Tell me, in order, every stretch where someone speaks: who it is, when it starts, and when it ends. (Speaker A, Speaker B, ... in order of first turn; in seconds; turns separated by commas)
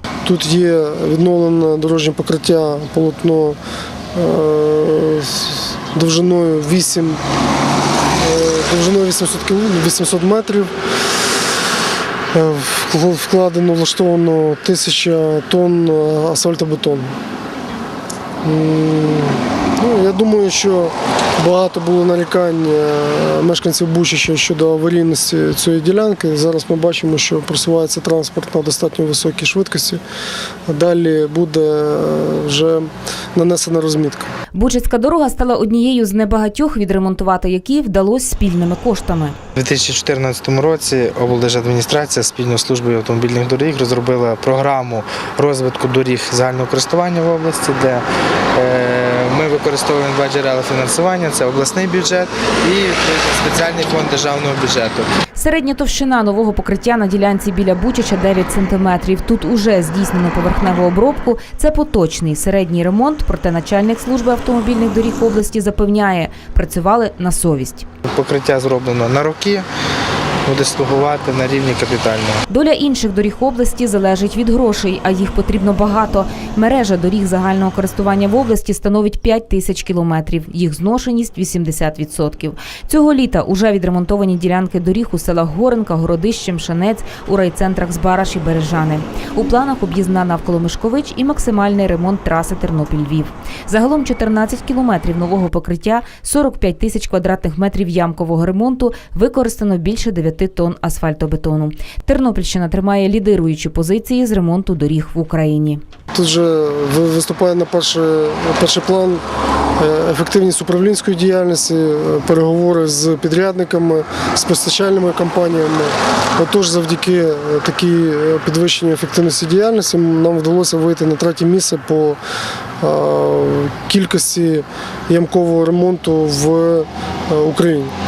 Speaker A: 0.2-3.6, Speaker A: 4.1-7.2, Speaker A: 8.2-10.7, Speaker A: 12.3-17.1, Speaker A: 18.4-30.0, Speaker A: 30.7-34.3, Speaker B: 34.5-39.4, Speaker C: 39.5-55.1, Speaker B: 55.3-67.8, Speaker C: 68.1-69.7, Speaker C: 70.5-72.4, Speaker B: 72.5-105.8, Speaker A: 106.1-109.2, Speaker A: 109.8-122.2, Speaker A: 122.8-127.9